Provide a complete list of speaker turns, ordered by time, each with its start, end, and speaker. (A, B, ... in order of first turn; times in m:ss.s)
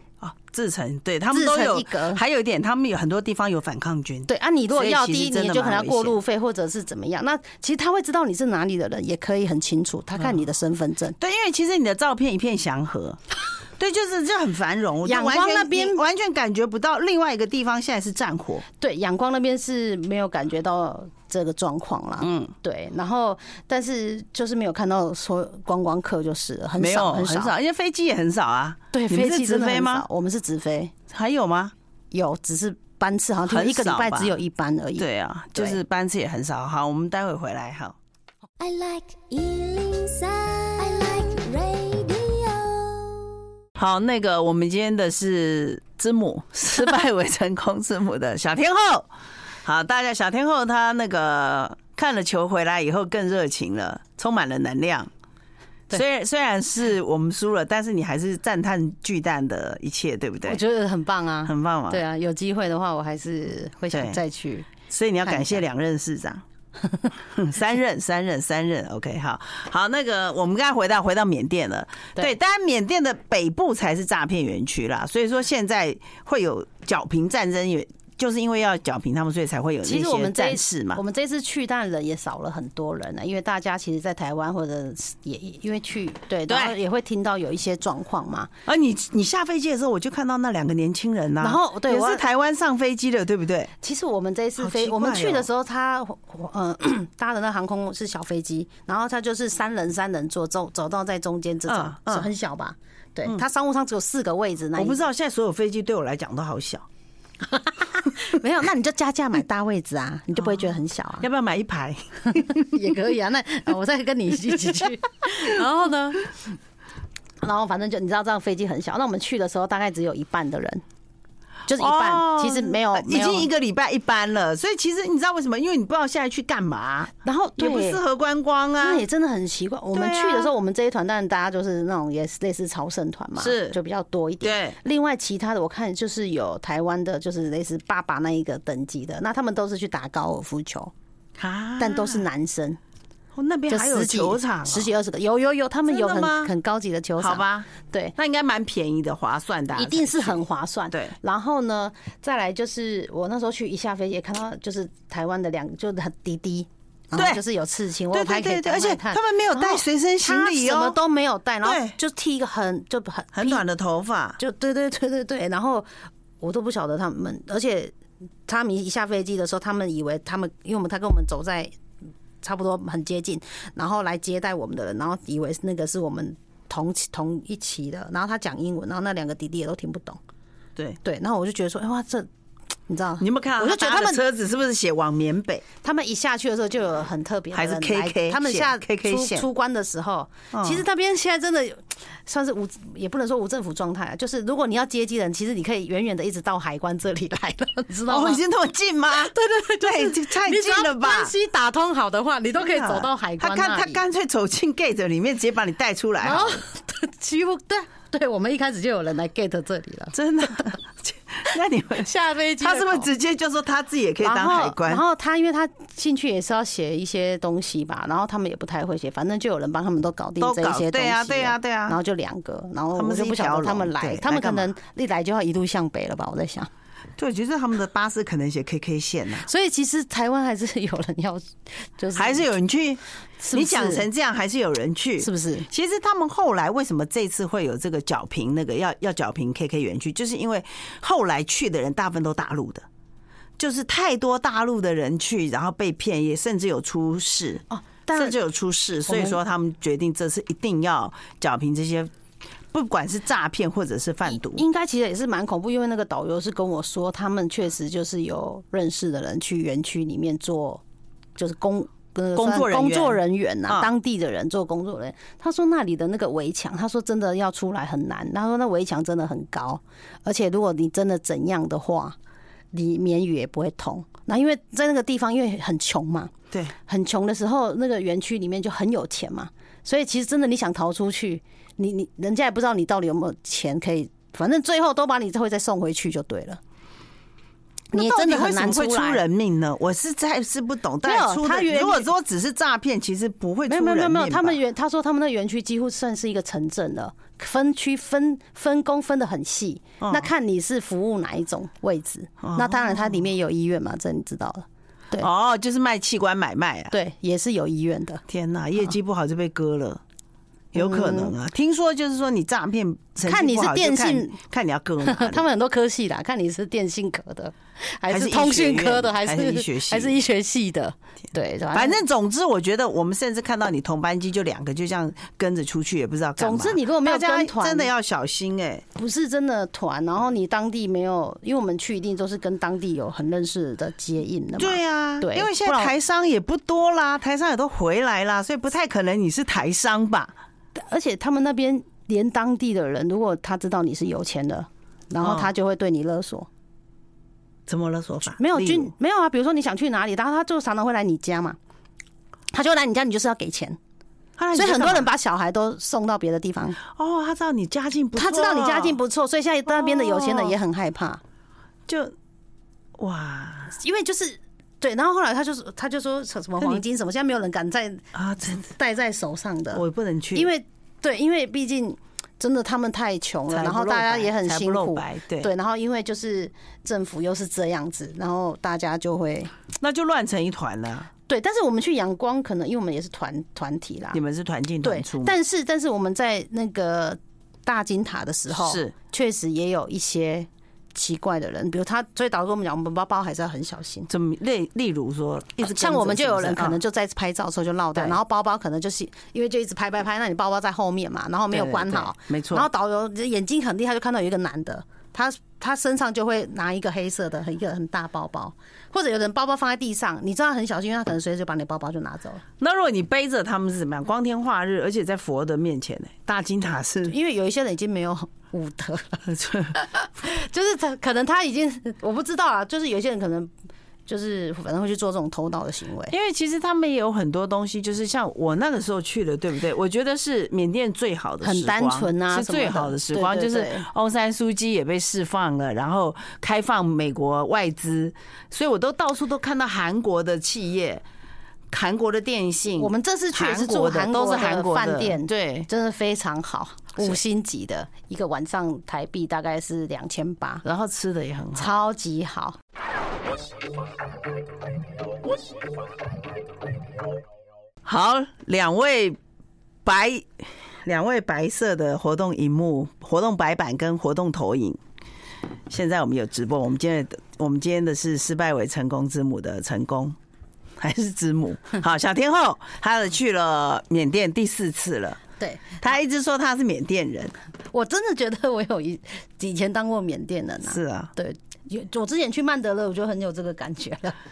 0:00.2-0:06.2 A
0:01.3-0:02.2 B
0:04.3-0:11.2 B
0:11.2-0:13.2 A
0:13.8-0:18.6 A
0:15.0-0:16.0 B
0:18.8-0:27.5 B
0:22.2-0:22.5 A
0:26.8-0:30.1 A
0:28.9-0:30.9 B
0:31.1-0:31.7 A
0:32.1-0:35.8 B
0:33.5-0:34.4 A
0:35.0-0:38.0 A
0:38.6-0:43.3 C
0:43.8-0:49.1 A
0:49.6-0:55.1 A
0:55.9-1:00.6 A
1:00.4-1:04.7 B
1:01.4-1:02.0 A
1:03.9-1:04.2 A
1:04.9-1:06.4 A
1:05.2-1:05.6 B
1:07.3-1:21.0 A
1:19.8-1:28.5 B
1:26.5-1:26.8 A
1:28.6-1:33.7 A
1:31.4-1:32.2 B
1:33.8-1:45.0 B
1:34.6-1:35.5 A
1:41.7-1:42.3 A
1:44.7-1:46.8 A
1:47.5-1:51.3 B
1:50.4-1:50.7 A
1:51.2-1:52.8 A
1:52.3-1:56.5 B
1:57.4-2:00.8 B
2:01.7-2:03.5 B
2:01.8-2:09.0 A
2:07.2-2:08.0 B
2:08.8-2:20.9 B
2:09.9-2:10.5 A
2:13.4-2:13.8 A
2:14.4-2:14.8 A
2:21.4-2:22.2 A
2:21.8-2:22.8 B
2:23.3-2:24.9 A
2:23.7-2:28.1 B
2:25.9-2:26.5 A
2:27.2-2:31.1 A
2:29.7-2:43.6 B
2:37.2-2:37.4 A
2:38.1-2:41.0 A
2:41.6-2:42.0 A
2:43.3-2:44.4 A
2:44.4-2:45.9 B
2:46.4-2:47.9 B
2:48.5-2:51.7 B
2:52.4-3:00.2 B
3:01.0-3:02.3 B
3:02.9-3:04.2 B
3:03.2-3:05.6 A
3:05.8-3:18.4 B
3:07.5-3:09.4 A
3:10.5-3:10.8 A
3:18.1-3:21.3 A
3:19.2-3:24.0 B
3:22.6-3:26.6 A
3:26.2-3:30.7 B
3:30.1-3:35.0 A
3:32.0-3:33.1 B
3:34.2-3:46.7 B
3:40.4-3:42.0 A
3:42.9-3:44.7 A
3:47.2-3:49.5 A
3:49.4-3:52.4 B
3:52.1-4:02.8 A
3:53.4-3:54.1 B
3:55.2-3:55.7 B
4:03.6-4:12.1 A
4:07.7-4:08.4 B
4:09.1-4:09.4 B
4:12.7-4:14.6 A
4:14.3-4:20.8 B
4:21.4-4:32.2 B
4:22.4-4:23.9 A
4:32.7-4:36.3 B
4:36.9-4:46.6 B
4:47.9-4:49.2 B
4:47.9-4:54.6 A
4:51.0-4:52.1 B
4:53.7-5:05.3 B
5:00.0-5:00.3 A
5:02.4-5:03.2 A
5:05.2-5:06.9 A
5:06.9-5:08.2 B
5:08.3-5:10.0 A
5:10.7-5:15.4 A
5:10.7-5:11.3 B
5:13.2-5:14.4 B
5:15.0-5:22.0 B
5:18.1-5:20.2 A
5:21.7-5:28.8 A
5:26.4-5:27.9 B
5:28.9-5:35.9 B
5:34.6-5:40.3 A
5:40.7-5:46.5 B
5:45.2-5:45.5 A
5:47.7-5:48.9 A
5:48.4-5:51.6 B
5:52.5-5:53.8 B
5:54.4-5:55.1 A
5:54.5-5:56.8 B
5:56.8-5:59.0 A
5:58.2-6:01.2 B
5:59.7-6:00.5 A
6:01.9-6:02.1 A
6:03.0-6:03.8 A
6:03.7-6:09.8 B
6:08.1-6:08.6 A
6:09.7-6:10.5 A
6:10.3-6:19.5 B
6:13.5-6:15.5 A
6:19.8-6:21.1 A
6:21.3-6:24.2 B
6:24.1-6:25.3 A
6:24.8-6:34.1 B
6:28.5-6:28.9 A
6:34.1-6:36.8 A
6:35.6-6:52.4 B
6:41.5-6:42.7 A
6:52.6-6:57.1 A
6:57.1-7:03.5 B
6:59.2-6:59.8 A
7:04.1-7:06.1 B
7:06.1-7:21.0 A
7:11.4-7:13.8 B
7:21.7-7:25.7 A
7:22.8-7:30.6 B
7:30.6-7:31.7 A
7:31.5-7:32.6 B
7:37.8-7:39.2 A
7:39.8-7:44.8 A
7:45.7-7:50.2 A
7:50.8-7:55.2 A
7:55.4-7:55.8 B
7:55.8-7:57.3 A
7:57.7-8:04.2 B
8:00.7-8:01.1 A